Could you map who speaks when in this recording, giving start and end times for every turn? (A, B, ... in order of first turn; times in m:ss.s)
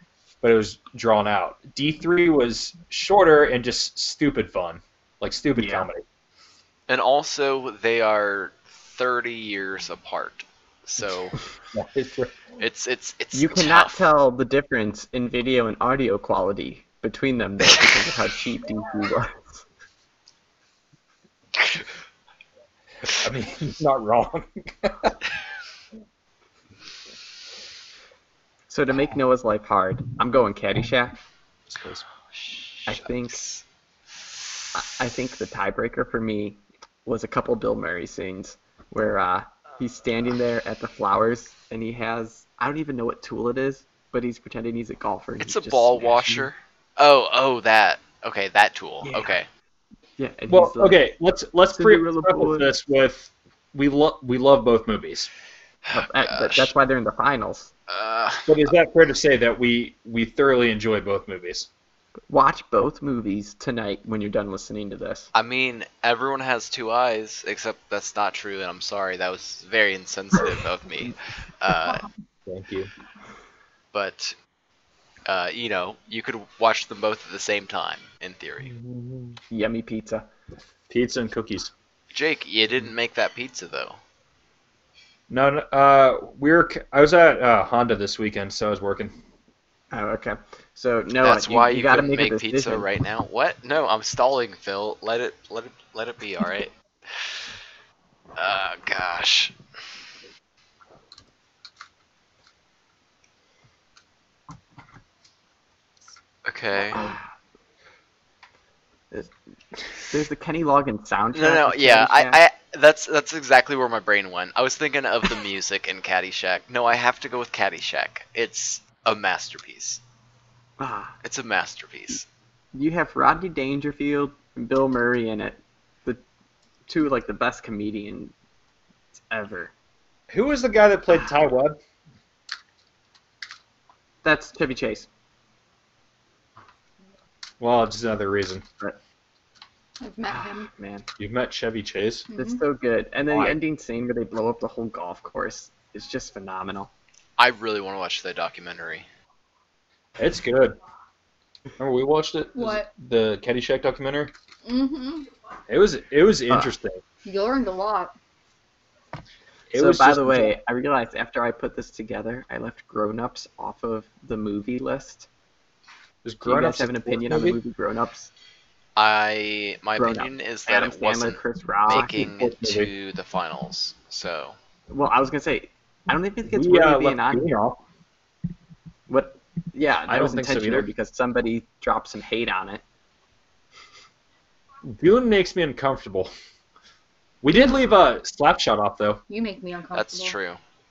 0:00.4-0:06.0 A
0:05.6-0:05.9 B
0:06.9-0:11.4 C
0:11.7-0:12.3 A
0:12.6-0:14.1 C
0:13.3-0:19.6 B
0:23.1-0:25.2 A
0:28.7-0:31.2 B
0:31.7-0:32.0 A
0:32.5-0:33.6 C
0:32.9-0:33.4 B
0:34.7-0:46.5 B
0:45.4-0:49.5 C
0:49.0-0:49.4 B
0:50.2-0:51.0 B
0:50.5-0:55.3 A
0:51.8-0:52.7 B
0:55.9-0:56.7 C
0:55.9-0:57.7 B
0:57.9-0:58.7 C
0:58.5-1:01.7 A
1:02.3-1:05.3 B
1:05.3-1:12.1 C
1:12.5-1:12.9 A
1:13.9-1:14.4 C
1:15.3-1:18.7 C
1:18.6-1:19.4 A
1:19.5-1:20.3 B
1:20.9-1:21.7 A
1:22.1-1:24.0 C
1:25.3-1:29.1 A
1:29.9-1:32.9 B
1:31.2-1:37.4 C
1:38.4-1:39.6 C
1:46.4-1:47.1 C
1:46.9-1:47.2 B
1:50.1-1:52.4 B
1:51.3-2:00.0 C
2:00.8-2:01.2 B
2:01.2-2:02.3 C
2:02.7-2:06.2 B
2:06.9-2:08.3 B
2:09.3-2:09.7 B
2:10.3-2:11.8 A
2:14.2-2:15.1 B
2:17.6-2:18.7 A
2:20.0-2:20.7 D
2:20.3-2:21.1 B
2:21.2-2:22.3 A
2:22.3-2:22.6 D
2:22.3-2:26.9 B
2:23.3-2:23.6 A
2:27.4-2:29.1 C
2:30.2-2:30.8 A
2:31.8-2:34.3 A
2:32.6-2:32.9 D
2:34.6-2:35.3 D
2:35.7-2:37.0 A
2:37.2-2:38.1 D
2:39.7-2:40.6 A
2:39.8-2:45.3 B
2:46.2-2:47.6 A
2:46.4-2:48.3 B
2:49.0-2:54.6 C
2:50.0-2:52.3 B
2:52.3-2:52.9 A
2:54.9-2:57.5 B
2:56.5-2:57.8 A
2:59.1-3:02.8 B
3:00.1-3:00.9 A
3:04.8-3:06.3 A
3:07.4-3:09.2 A
3:09.3-3:10.4 D
3:09.9-3:10.6 C